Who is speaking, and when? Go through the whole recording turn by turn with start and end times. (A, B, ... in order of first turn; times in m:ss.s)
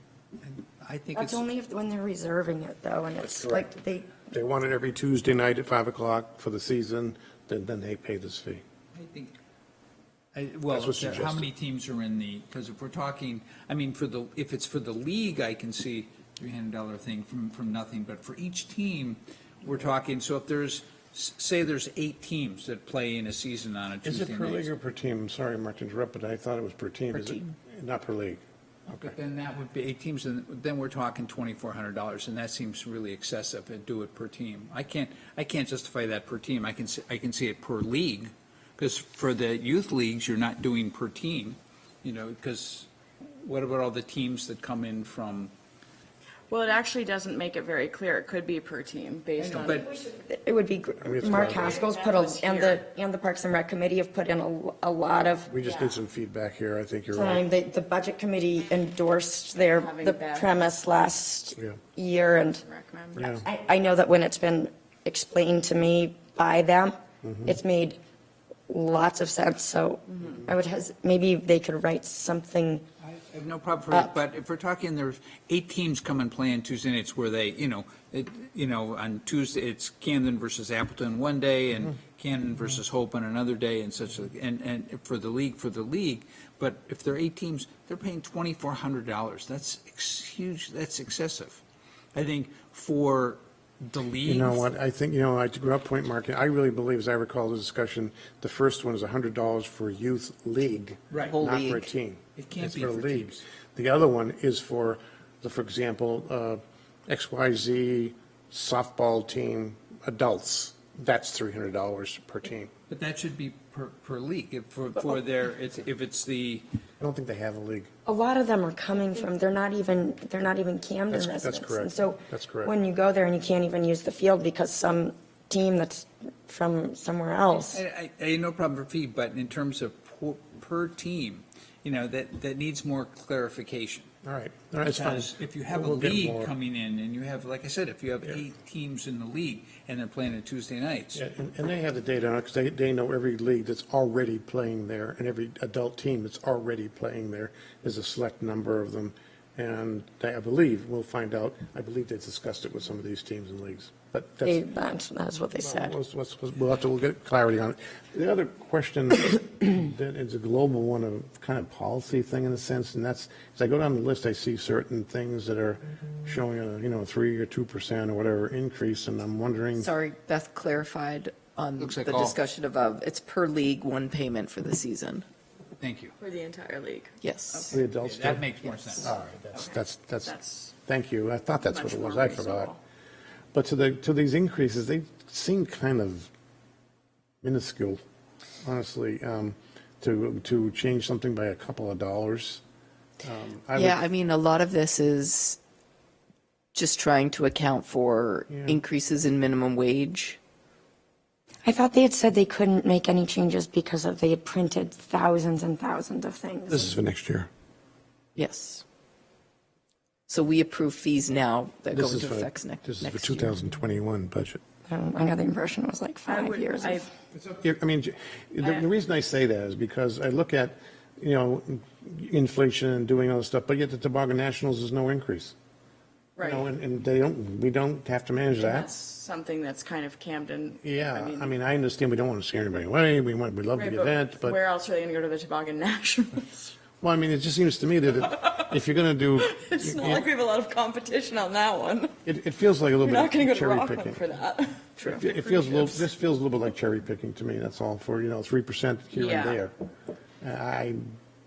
0:00.4-0:01.4 A
0:01.1-0:04.2 B
0:03.2-0:03.7 C
0:04.3-0:08.6 C
0:08.9-0:09.3 A
0:10.3-0:24.7 A
0:10.7-0:11.5 C
0:24.0-0:29.1 C
0:27.1-0:27.4 D
0:28.9-0:42.9 A
0:43.4-0:45.5 A
0:46.5-0:49.9 E
0:49.4-0:49.9 A
0:49.7-0:56.0 B
0:51.0-0:51.8 C
0:51.4-0:52.8 E
0:55.5-0:57.4 C
0:57.1-1:02.6 B
0:59.6-1:00.7 E
1:02.6-1:03.4 E
1:03.2-1:03.4 C
1:03.4-1:08.0 B
1:07.2-1:07.5 C
1:08.7-1:12.8 B
1:10.1-1:10.4 E
1:13.0-1:31.6 A
1:32.1-1:34.6 A
1:34.2-1:52.7 C
1:41.1-1:41.4 A
1:41.3-1:41.9 D
1:42.4-1:43.4 A
1:52.9-1:56.6 A
1:57.0-1:57.9 C
1:58.0-2:07.8 B
2:01.1-2:02.7 C
2:07.7-2:14.1 A
2:14.2-2:16.5 C
2:14.8-2:21.2 A
2:21.1-2:34.6 C
2:34.4-2:35.9 B
2:35.6-2:49.9 C
2:49.8-2:55.2 D
2:51.8-2:52.4 A
2:55.8-2:56.1 A
2:56.2-2:57.8 E
2:57.2-2:57.8 D
2:57.7-3:02.7 C
2:58.0-2:59.1 A
2:58.6-2:59.0 D
2:59.5-3:00.7 E
3:01.6-3:02.8 E
3:03.5-3:06.3 C
3:07.4-3:08.0 C
3:08.6-3:12.6 C
3:13.2-3:14.0 C
3:13.7-3:15.6 D
3:16.7-3:20.4 D
3:18.5-3:18.8 C
3:21.6-3:26.9 B
3:26.7-3:27.5 C
3:28.4-3:28.8 D
3:30.3-3:33.5 D
3:31.9-3:34.6 C
3:34.9-3:37.0 B
3:36.2-3:37.1 E
3:37.3-3:45.5 C
3:46.4-3:46.7 E
3:46.4-3:48.9 C
3:48.6-3:51.5 E
3:50.8-3:54.6 C
3:53.7-3:56.7 E
3:57.0-4:00.2 C
3:58.3-3:58.6 E
3:59.4-4:02.2 E
4:02.2-4:04.2 C
4:03.0-4:06.0 E
4:05.0-4:09.7 C
4:09.1-4:09.6 E
4:10.4-4:11.0 C